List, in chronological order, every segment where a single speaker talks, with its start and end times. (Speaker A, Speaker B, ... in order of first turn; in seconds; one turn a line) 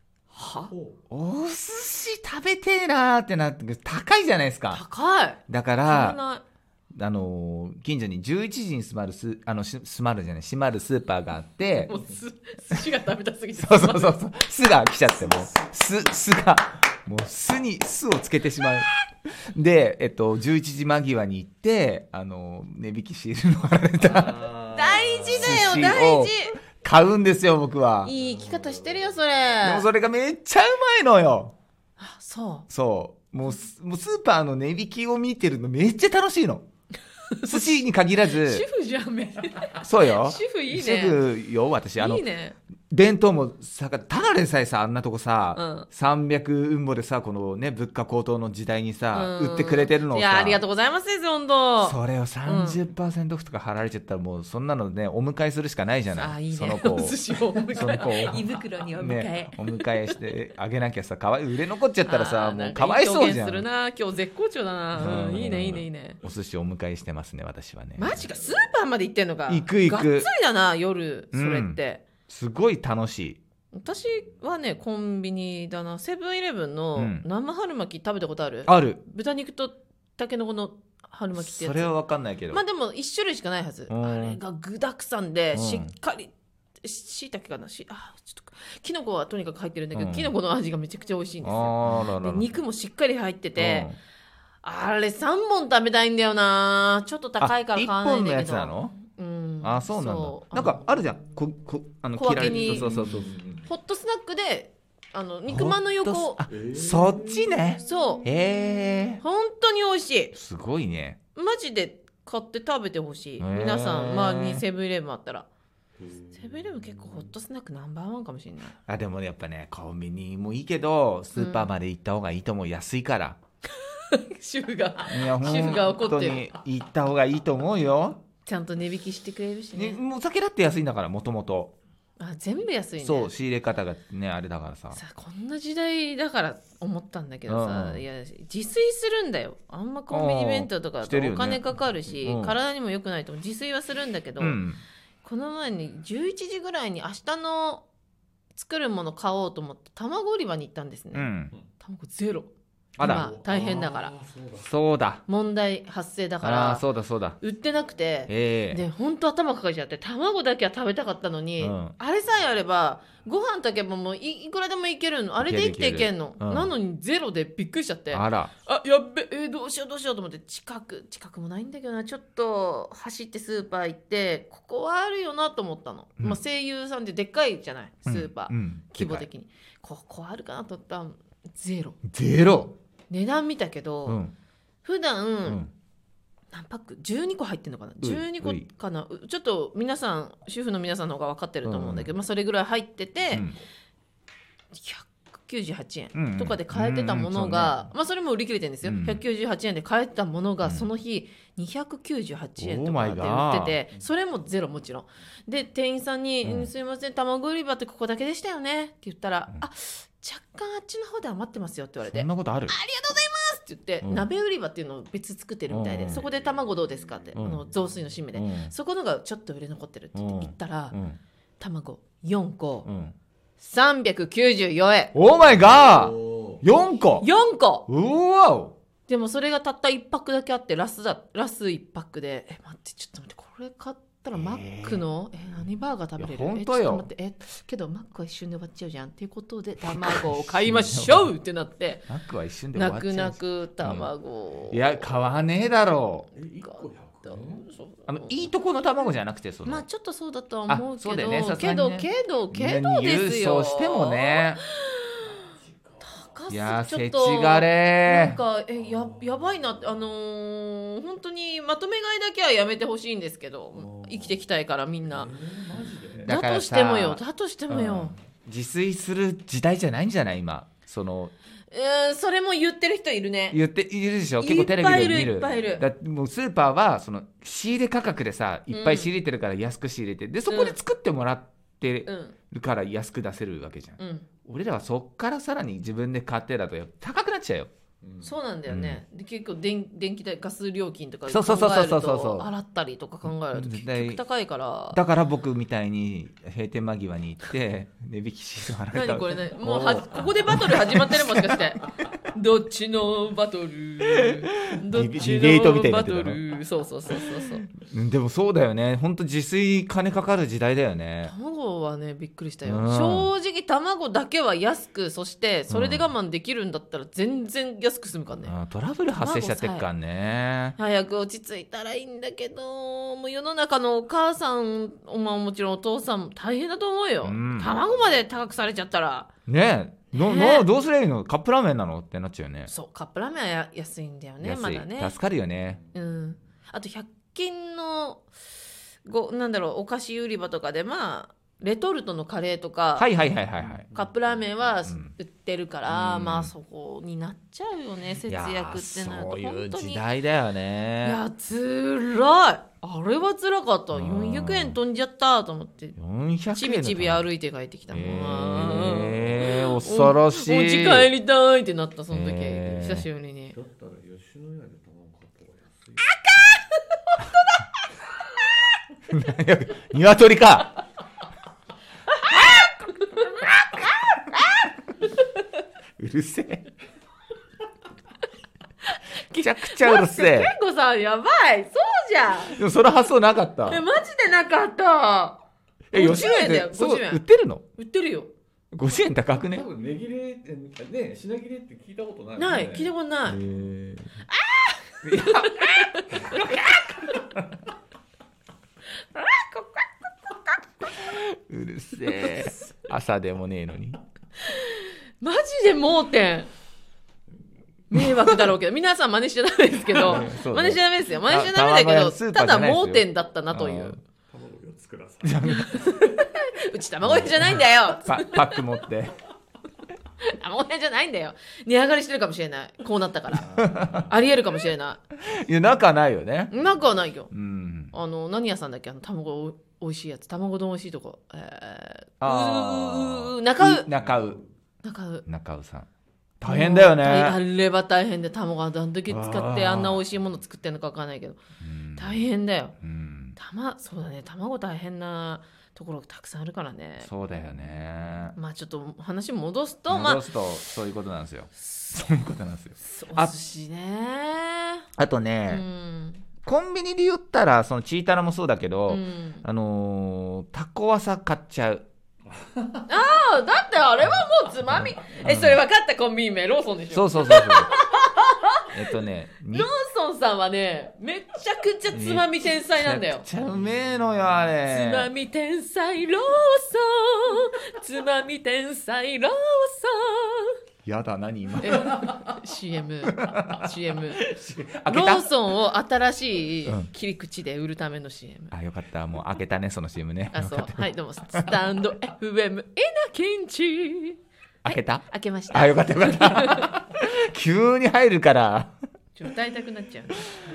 Speaker A: 0.3-0.7
Speaker B: 0.7-1.0
Speaker C: 1.1-4.8
Speaker A: 4.7-6.4
Speaker C: 5.5-6.2
Speaker C: 6.9-11.9
Speaker A: 11.8-14.2
Speaker C: 13.6-24.5
Speaker B: 24.0-25.9
Speaker A: 24.7-26.6
Speaker C: 25.3-28.1
Speaker A: 28.0-29.9
Speaker B: 28.1-29.2
Speaker C: 29.6-31.5
Speaker A: 32.0-32.7
Speaker C: 32.7-36.6
Speaker A: 37.3-41.3
Speaker C: 37.5-38.6
Speaker C: 39.8-42.2
Speaker A: 42.0-42.5
Speaker C: 42.9-50.6
Speaker A: 45.5-45.9
Speaker A: 49.1-52.8
Speaker C: 51.8-63.6
Speaker A: 56.1-60.1
Speaker A: 62.0-66.2
Speaker C: 65.0-68.2
Speaker A: 68.0-72.0
Speaker C: 69.5-70.3
Speaker C: 71.3-73.4
Speaker A: 73.7-81.9
Speaker C: 77.0-77.2
Speaker C: 78.7-79.0
Speaker C: 81.3-82.6
Speaker A: 82.5-93.9
Speaker C: 83.9-84.4
Speaker C: 85.5-85.9
Speaker C: 89.9-90.3
Speaker C: 91.4-92.5
Speaker C: 93.6-94.0
Speaker A: 94.6-100.8
Speaker C: 97.4-98.9
Speaker C: 99.6-103.3
Speaker A: 102.1-106.4
Speaker B: 102.3-103.7
Speaker C: 105.5-109.2
Speaker B: 106.5-108.0
Speaker A: 107.7-108.2
Speaker A: 109.2-110.3
Speaker C: 110.3-111.2
Speaker A: 111.3-115.5
Speaker C: 113.4-114.6
Speaker B: 116.0-117.3
Speaker A: 116.4-118.8
Speaker C: 118.8-123.4
Speaker A: 121.3-121.7
Speaker A: 123.8-126.5
Speaker C: 125.1-128.2
Speaker A: 128.4-130.0
Speaker C: 129.7-131.7
Speaker A: 132.2-133.3
Speaker C: 133.0-135.0
Speaker A: 134.9-144.6
Speaker C: 137.5-138.0
Speaker C: 140.1-141.6
Speaker C: 142.2-142.5
Speaker C: 144.4-144.8
Speaker A: 145.2-147.8
Speaker A: 148.5-154.1
Speaker C: 151.1-151.5
Speaker C: 153.0-153.2
Speaker B: 153.0-154.7
Speaker C: 154.6-155.2
Speaker A: 155.3-156.8
Speaker C: 156.4-157.4
Speaker A: 157.4-182.0
Speaker C: 158.3-158.8
Speaker C: 161.6-161.9
Speaker C: 165.4-166.7
Speaker C: 168.1-168.5
Speaker C: 178.1-179.2
Speaker C: 182.0-182.8
Speaker A: 183.1-184.2
Speaker C: 184.1-184.3
Speaker A: 184.8-185.6
Speaker A: 186.5-193.5
Speaker C: 188.0-188.7
Speaker C: 191.6-192.1
Speaker C: 193.3-193.6
Speaker A: 194.7-221.0
Speaker C: 196.1-197.9
Speaker C: 198.8-199.2
Speaker C: 202.6-203.8
Speaker C: 206.4-206.7
Speaker C: 212.0-212.7
Speaker C: 215.7-216.2
Speaker C: 217.3-217.6
Speaker C: 218.3-218.7
Speaker C: 220.1-221.2
Speaker A: 221.6-222.9
Speaker C: 222.8-223.1
Speaker A: 223.6-225.1
Speaker C: 225.1-227.3
Speaker B: 225.4-226.6
Speaker A: 227.2-227.8
Speaker C: 227.9-228.8
Speaker A: 229.1-242.1
Speaker C: 234.3-235.0
Speaker C: 236.2-237.1
Speaker C: 239.8-241.3
Speaker C: 242.1-244.1
Speaker A: 242.7-245.1
Speaker C: 244.7-246.3
Speaker B: 246.3-247.7
Speaker A: 246.6-248.3
Speaker C: 248.1-249.8
Speaker A: 249.6-255.5
Speaker C: 250.7-254.6
Speaker B: 255.2-256.3
Speaker A: 256.0-265.3
Speaker C: 256.5-258.4
Speaker B: 258.8-260.1
Speaker B: 263.7-264.4
Speaker B: 265.1-266.3
Speaker C: 266.2-271.3
Speaker A: 266.3-268.1
Speaker A: 271.7-273.6
Speaker C: 273.5-287.7
Speaker A: 274.4-275.9
Speaker A: 278.7-279.1
Speaker A: 280.5-280.8
Speaker A: 282.1-282.4
Speaker A: 284.0-284.3
Speaker B: 288.0-288.4
Speaker A: 288.2-295.0
Speaker C: 288.7-289.0
Speaker C: 291.3-292.5
Speaker C: 293.4-294.2
Speaker C: 294.9-301.6
Speaker A: 298.9-307.6
Speaker C: 304.2-306.4
Speaker C: 307.7-311.3
Speaker A: 311.2-318.5
Speaker C: 312.6-313.3
Speaker C: 315.7-316.1
Speaker C: 318.4-320.8
Speaker A: 319.2-319.9
Speaker A: 320.8-329.3
Speaker C: 327.2-327.8
Speaker C: 329.5-332.7
Speaker A: 330.1-330.7
Speaker A: 332.7-335.1
Speaker C: 334.4-335.8
Speaker B: 335.8-336.1
Speaker A: 335.9-338.3
Speaker A: 339.0-343.1
Speaker C: 343.0-343.9
Speaker B: 343.6-344.6
Speaker A: 343.9-350.0
Speaker C: 344.9-345.1
Speaker C: 345.9-346.5
Speaker C: 348.3-351.2
Speaker A: 351.0-356.0
Speaker C: 353.9-354.8
Speaker C: 356.0-357.3
Speaker A: 356.5-363.6
Speaker C: 357.9-361.1
Speaker C: 362.1-363.1
Speaker B: 363.5-366.1
Speaker A: 366.1-367.7
Speaker C: 369.1-370.8
Speaker A: 372.1-374.7
Speaker C: 376.0-376.7
Speaker A: 378.9-382.6
Speaker C: 379.3-380.5
Speaker C: 382.4-383.8
Speaker A: 383.7-385.4
Speaker C: 385.9-387.6
Speaker A: 385.9-387.2
Speaker A: 387.8-388.3
Speaker C: 388.7-389.7
Speaker B: 389.4-392.9
Speaker A: 392.4-393.4
Speaker C: 393.3-394.2
Speaker A: 394.3-396.3
Speaker C: 395.0-396.5
Speaker A: 399.1-401.1
Speaker C: 400.9-404.0
Speaker A: 402.1-402.6
Speaker A: 404.4-406.5
Speaker A: 407.9-414.0
Speaker C: 409.9-414.0
Speaker B: 414.3-415.9
Speaker C: 415.2-415.9
Speaker A: 415.4-418.6
Speaker C: 417.1-419.2
Speaker A: 420.2-425.0
Speaker B: 423.3-424.2
Speaker C: 423.6-424.0
Speaker C: 425.2-426.5
Speaker A: 426.5-427.3
Speaker C: 427.3-427.9
Speaker A: 427.9-433.9
Speaker C: 432.2-434.4
Speaker B: 433.9-434.4
Speaker A: 434.8-435.2
Speaker C: 435.2-435.9
Speaker C: 436.4-437.4
Speaker A: 436.4-441.4
Speaker C: 439.1-440.0
Speaker C: 441.6-442.2
Speaker A: 442.0-442.8
Speaker C: 442.8-443.4
Speaker A: 443.3-447.8
Speaker C: 447.0-448.4
Speaker A: 448.3-450.3
Speaker C: 449.9-453.3
Speaker A: 452.8-454.9
Speaker C: 455.0-455.6
Speaker A: 455.5-456.2
Speaker C: 456.4-461.9
Speaker A: 458.9-459.4
Speaker A: 462.9-468.7
Speaker C: 465.2-465.6
Speaker C: 466.9-467.7
Speaker C: 468.7-469.7
Speaker A: 469.5-473.2
Speaker C: 471.9-475.1
Speaker A: 474.6-480.6
Speaker C: 480.8-482.1
Speaker A: 481.6-484.2
Speaker C: 483.1-485.3
Speaker A: 484.9-488.5
Speaker C: 488.5-491.6
Speaker A: 490.3-496.7
Speaker C: 494.6-498.7
Speaker A: 499.1-500.3